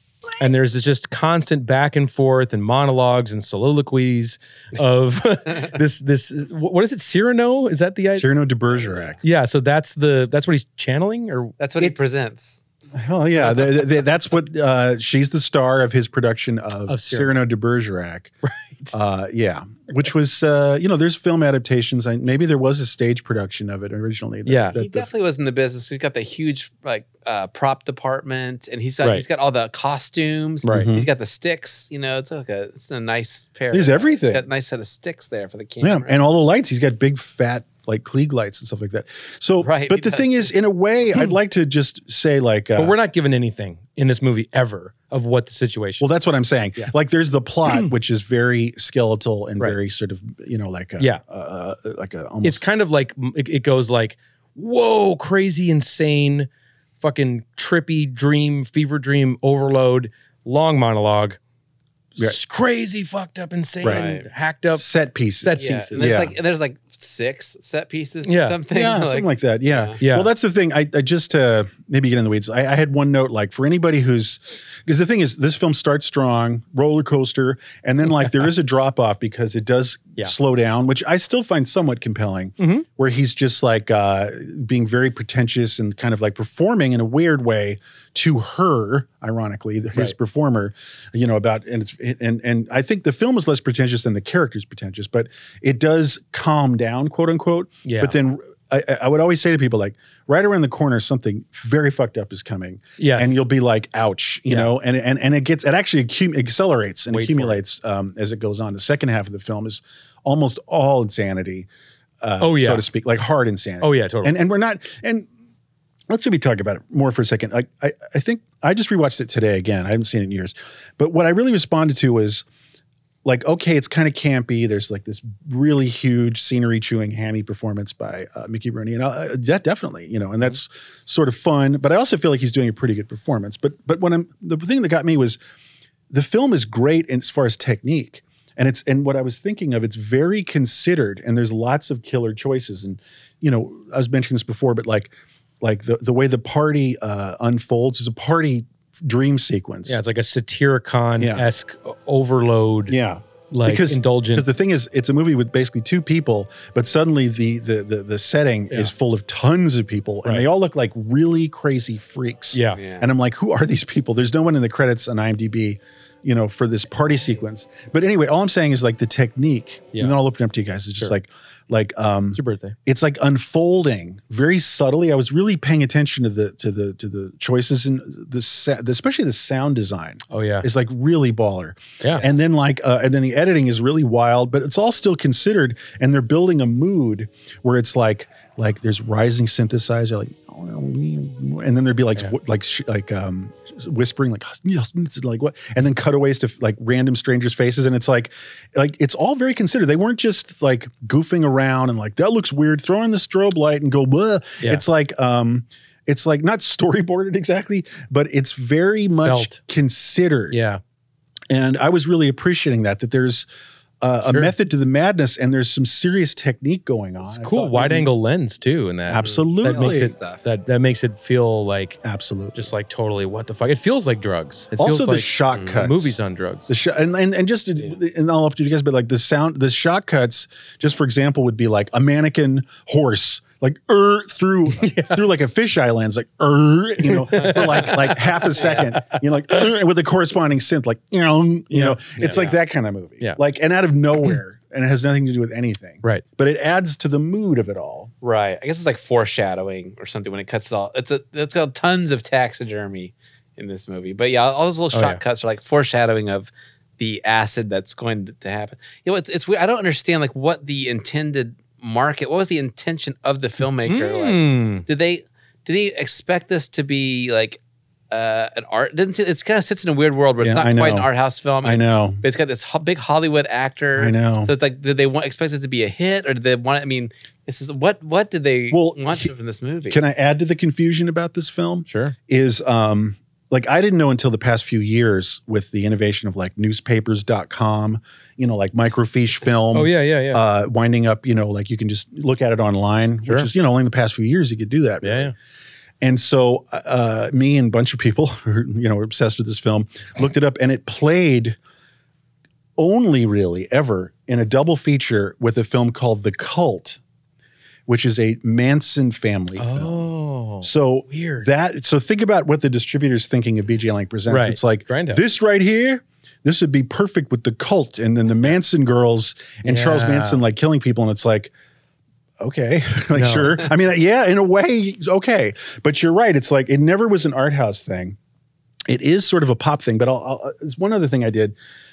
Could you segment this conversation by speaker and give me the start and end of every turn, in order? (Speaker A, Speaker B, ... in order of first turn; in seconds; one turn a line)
Speaker A: 0.4-8.3
Speaker B: 8.1-9.2
Speaker C: 8.7-9.1
Speaker A: 9.2-11.6
Speaker C: 11.6-12.6
Speaker B: 12.9-18.3
Speaker A: 16.9-17.4
Speaker A: 18.4-19.0
Speaker B: 18.9-25.1
Speaker A: 24.5-24.8
Speaker C: 24.8-36.2
Speaker A: 30.6-30.9
Speaker B: 30.7-31.1
Speaker B: 33.7-34.4
Speaker B: 35.8-43.0
Speaker C: 39.6-40.5
Speaker A: 42.8-46.1
Speaker B: 46.0-52.6
Speaker A: 47.7-47.9
Speaker A: 52.4-56.5
Speaker A: 57.0-61.4
Speaker A: 62.2-64.9
Speaker B: 63.8-64.1
Speaker C: 63.9-64.3
Speaker B: 64.7-66.3
Speaker A: 65.4-66.2
Speaker C: 65.6-70.0
Speaker A: 68.2-68.6
Speaker B: 68.7-111.7
Speaker A: 70.0-70.3
Speaker A: 82.6-82.9
Speaker A: 97.8-98.2
Speaker A: 103.0-103.4
Speaker A: 107.1-107.6
Speaker B: 112.2-115.3
Speaker A: 112.4-112.9
Speaker A: 113.8-114.4
Speaker B: 116.1-122.5
Speaker B: 123.2-135.4
Speaker B: 136.1-150.0
Speaker A: 149.9-153.0
Speaker B: 151.2-151.5
Speaker B: 152.9-210.6
Speaker A: 153.5-154.5
Speaker A: 162.5-162.8
Speaker C: 162.8-163.1
Speaker A: 172.3-172.8
Speaker A: 180.3-180.7
Speaker A: 182.0-182.3
Speaker A: 209.2-209.6
Speaker A: 210.5-210.8
Speaker B: 211.5-213.5
Speaker B: 214.0-218.1
Speaker A: 214.2-214.5
Speaker A: 217.2-222.0
Speaker B: 219.1-220.1
Speaker C: 219.2-220.4
Speaker B: 222.0-222.7
Speaker A: 222.5-226.7
Speaker B: 224.8-248.1
Speaker C: 225.5-225.8
Speaker A: 234.7-235.2
Speaker A: 237.0-239.7
Speaker C: 238.6-238.9
Speaker A: 241.7-242.4
Speaker C: 242.2-242.6
Speaker C: 248.2-267.6
Speaker A: 254.9-255.2
Speaker A: 263.9-264.9
Speaker C: 268.1-280.0
Speaker B: 270.4-271.1
Speaker B: 271.6-272.2
Speaker B: 274.0-274.5
Speaker B: 278.7-279.3
Speaker B: 279.9-295.3
Speaker A: 281.9-282.2
Speaker A: 289.7-290.4
Speaker A: 295.0-295.3
Speaker B: 296.0-301.6
Speaker B: 302.8-307.0
Speaker B: 307.9-321.5
Speaker A: 309.6-311.5
Speaker A: 314.3-315.2
Speaker A: 319.6-320.5
Speaker B: 322.4-328.2
Speaker A: 323.1-323.7
Speaker B: 328.9-331.5